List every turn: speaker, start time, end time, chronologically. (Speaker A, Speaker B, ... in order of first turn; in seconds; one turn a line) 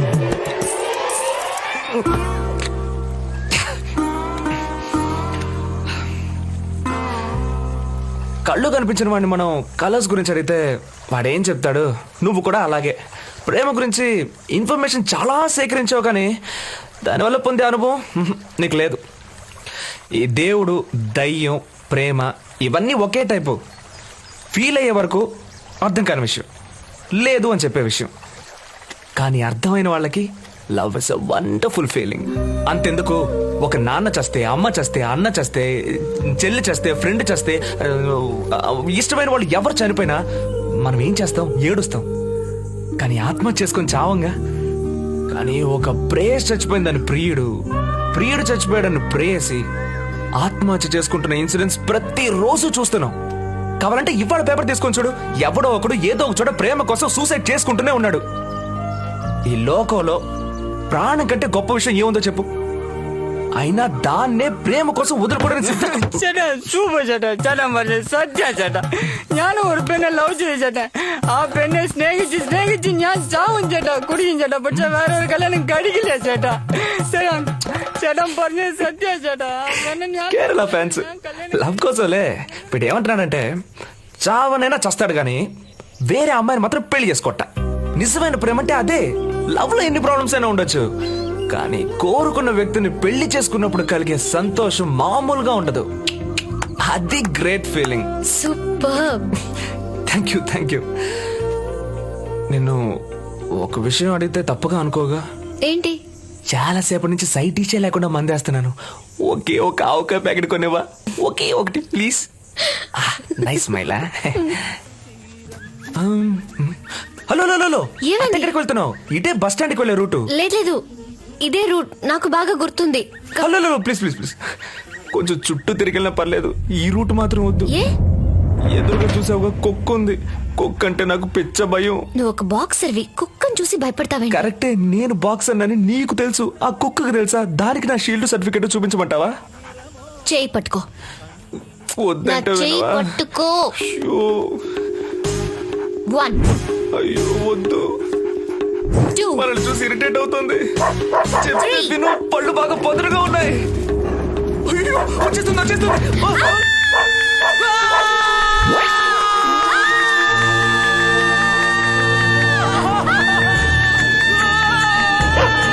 Speaker A: 8.4-16.3
Speaker A: 17.0-19.0
Speaker A: 20.2-23.6
Speaker A: 24.5-25.2
Speaker A: 25.8-26.5
Speaker A: 27.1-28.1
Speaker A: 29.2-40.2
Speaker A: 40.8-42.1
Speaker A: 43.0-44.3
Speaker A: 45.3-47.5
Speaker A: 48.1-49.6
Speaker A: 50.4-53.1
Speaker A: 53.8-58.2
Speaker A: 59.5-60.2
Speaker A: 60.9-62.5
Speaker A: 63.5-66.1
Speaker B: 65.8-81.7
Speaker A: 80.2-83.5
Speaker A: 84.2-85.5
Speaker A: 86.1-90.8
Speaker A: 91.5-95.9
Speaker A: 96.8-98.1
Speaker C: 98.2-99.2
Speaker A: 100.1-100.8
Speaker A: 102.5-102.8
Speaker A: 103.6-105.2
Speaker C: 105.6-106.0
Speaker A: 106.5-112.3
Speaker A: 112.9-114.8
Speaker A: 116.0-120.3
Speaker C: 118.0-118.5
Speaker C: 120.3-120.8
Speaker C: 121.4-123.5
Speaker A: 123.4-124.4
Speaker A: 125.1-127.7
Speaker A: 128.7-132.0
Speaker C: 132.2-134.4
Speaker A: 134.3-139.3
Speaker C: 140.3-140.8
Speaker A: 141.9-143.2
Speaker C: 142.2-143.7
Speaker A: 143.8-144.6
Speaker C: 146.1-146.4
Speaker A: 146.9-147.8
Speaker C: 149.1-149.4
Speaker A: 149.3-153.7
Speaker C: 151.5-151.9
Speaker A: 154.7-156.6